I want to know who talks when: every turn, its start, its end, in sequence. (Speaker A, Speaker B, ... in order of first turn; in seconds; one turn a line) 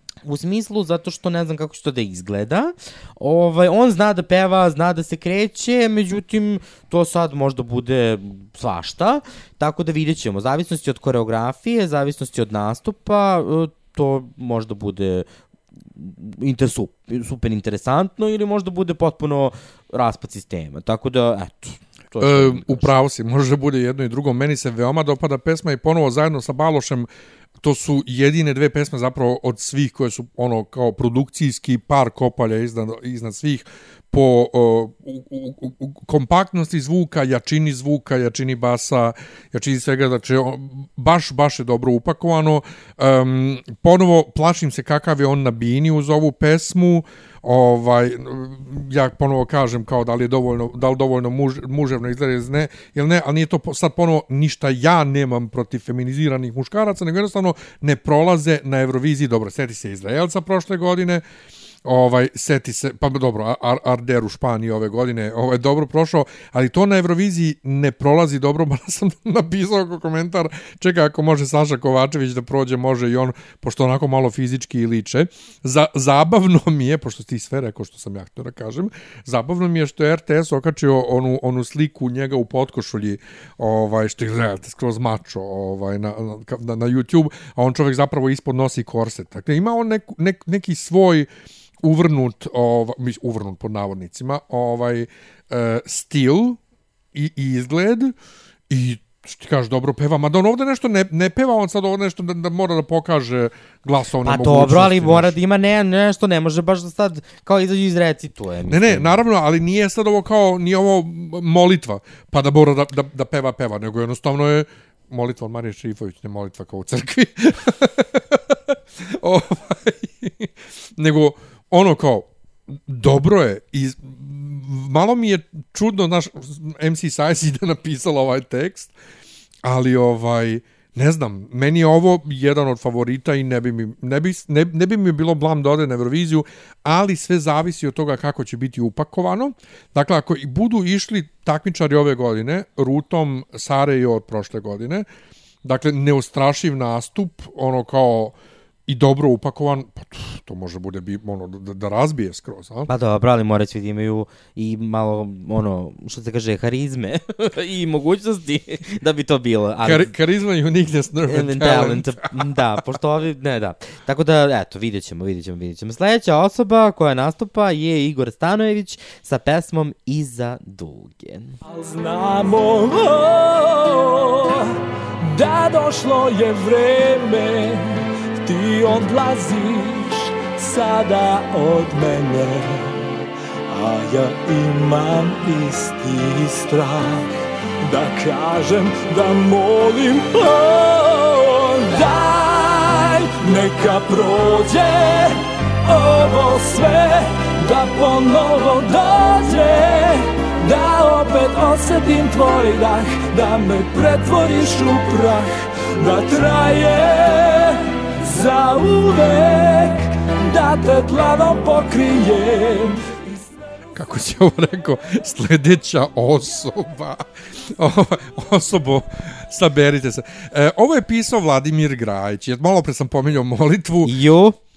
Speaker A: 0.2-15.3
Speaker A: 16.0-22.9
Speaker B: 22.2-27.1
Speaker B: 27.6-61.2
Speaker B: 61.9-91.3
Speaker B: 91.8-96.6
Speaker B: 97.1-98.2
Speaker B: 98.7-105.3
Speaker A: 104.2-109.2
Speaker B: 108.7-128.9
Speaker B: 129.6-145.1
Speaker B: 145.6-148.4
Speaker B: 148.9-152.9
Speaker A: 152.9-160.1
Speaker B: 159.8-162.5
Speaker A: 161.3-171.6
Speaker C: 171.7-183.1
Speaker C: 183.7-213.6
Speaker B: 213.9-224.2
Speaker A: 224.1-224.6